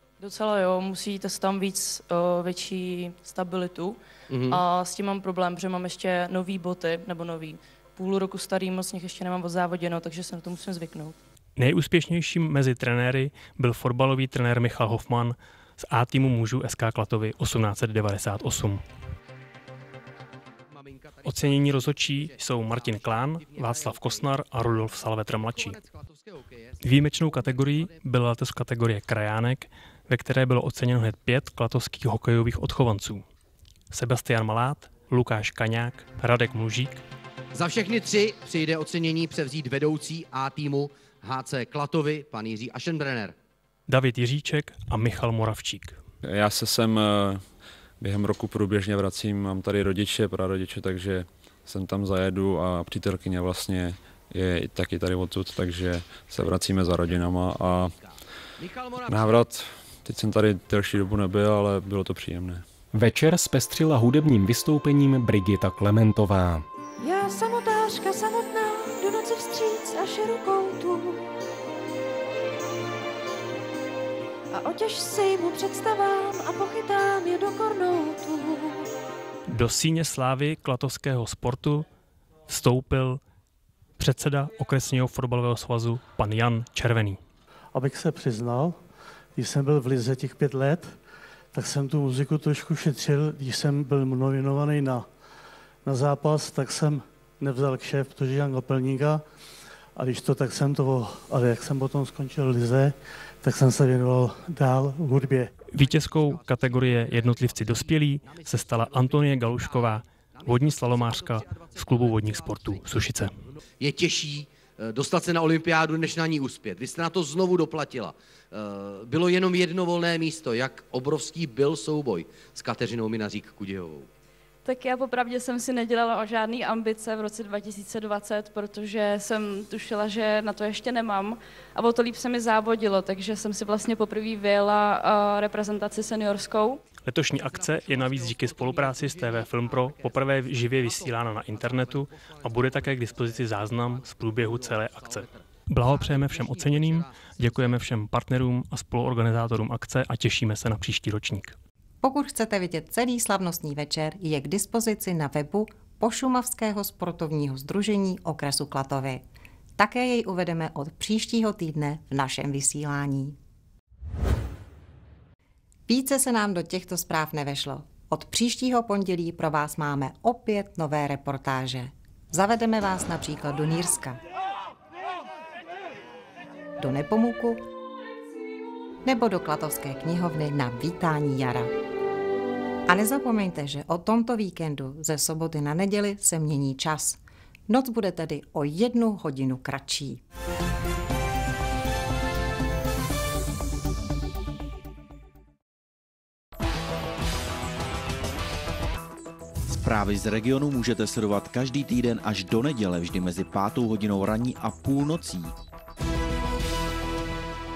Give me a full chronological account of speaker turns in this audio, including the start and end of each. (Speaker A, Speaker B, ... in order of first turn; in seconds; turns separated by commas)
Speaker A: 0.2-11.2, Speaker B: 4.3-4.6, Speaker C: 11.6-18.8, Speaker B: 20.7-28.0, Speaker C: 21.2-25.8, Speaker C: 26.8-33.2, Speaker C: 33.9-37.0, Speaker B: 37.5-43.3, Speaker C: 43.9-46.0, Speaker D: 46.2-47.4, Speaker D: 48.0-57.9, Speaker B: 58.6-59.4, Speaker D: 59.1-62.6, Speaker E: 62.9-66.6, Speaker F: 67.0-71.1, Speaker F: 74.6-78.5, Speaker C: 79.5-81.9, Speaker C: 82.5-83.2, Speaker C: 84.0-87.2, Speaker G: 87.7-88.8, Speaker G: 89.3-91.0, Speaker G: 91.5-95.1, Speaker G: 95.8-99.2, Speaker G: 100.0-105.5, Speaker C: 105.7-113.4, Speaker B: 105.8-124.1, Speaker A: 124.6-136.8, Speaker C: 137.0-151.6, Speaker B: 137.4-147.8, Speaker H: 152.0-159.2, Speaker H: 159.8-163.3, Speaker H: 165.9-174.2, Speaker H: 176.8-177.6, Speaker H: 179.0-181.7, Speaker H: 182.9-190.2, Speaker I: 199.7-205.5